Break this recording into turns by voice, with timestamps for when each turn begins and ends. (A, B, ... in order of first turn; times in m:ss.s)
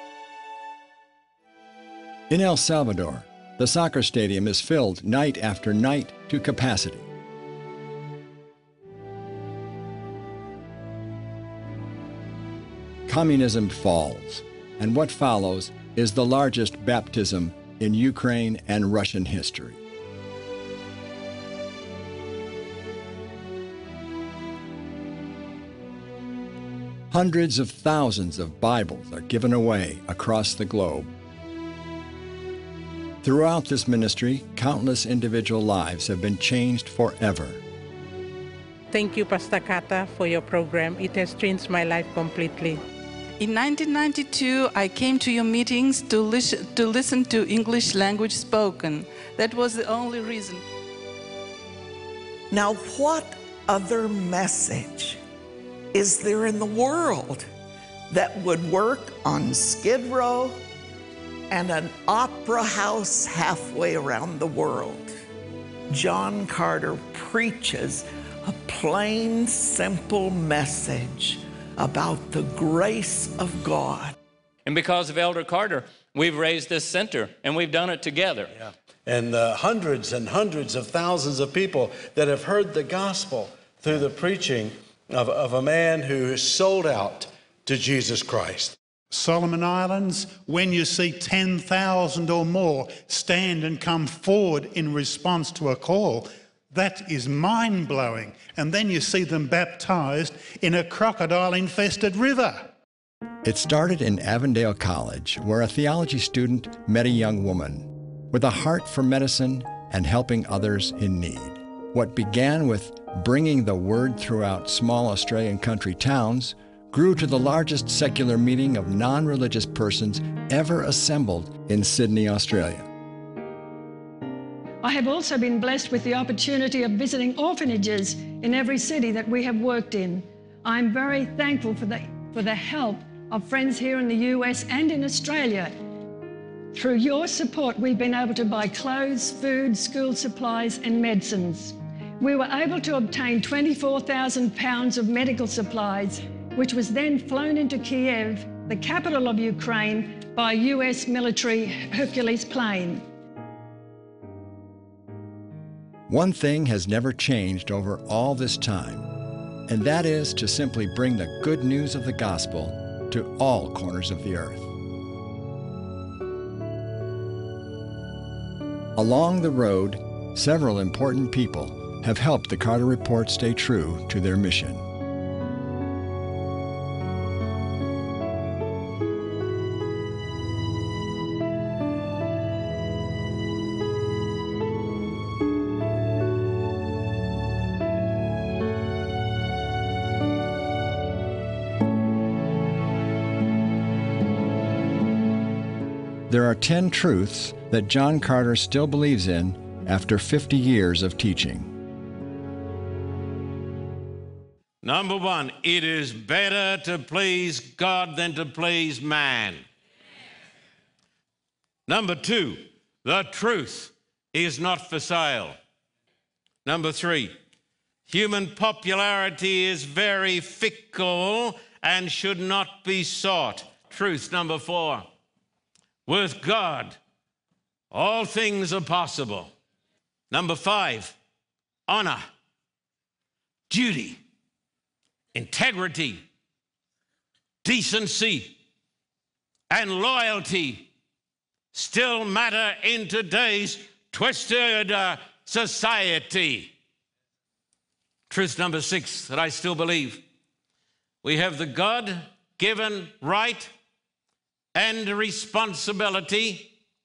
0:02.3-0:07.1 A
0:13.1-0:19.8 A
0:27.1-0:31.1 A
0:33.2-0:37.6 A
0:38.9-0:42.8 B
0:43.4-0:50.6 C
0:52.5-0:55.2 D
0:55.9-0:57.5 D
0:58.1-1:00.6 D
1:01.5-1:05.1 D
1:05.9-1:14.1 D
1:14.6-1:18.5 E
1:18.6-1:28.8 F
1:29.1-1:42.7 G
1:43.4-2:02.9 A
2:04.8-2:15.7 H
2:16.7-2:33.0 H
2:36.1-2:39.1 A
2:39.7-2:44.7 A
2:48.9-2:54.8 A
3:16.3-3:21.7 A
3:24.8-3:29.6 I
3:31.9-3:35.6 I
3:36.6-3:37.3 I
3:38.0-3:45.0 I
3:46.0-3:47.0 I
3:47.9-3:49.5 I
3:50.3-3:51.2 I
3:51.9-3:52.2 I
3:53.7-3:54.2 I
3:55.3-3:56.2 I
3:57.6-3:58.6 I
3:59.7-4:00.9 I
4:01.7-4:06.7 I
4:08.3-4:10.2 I
4:11.2-4:13.7 I
4:14.7-4:16.8 I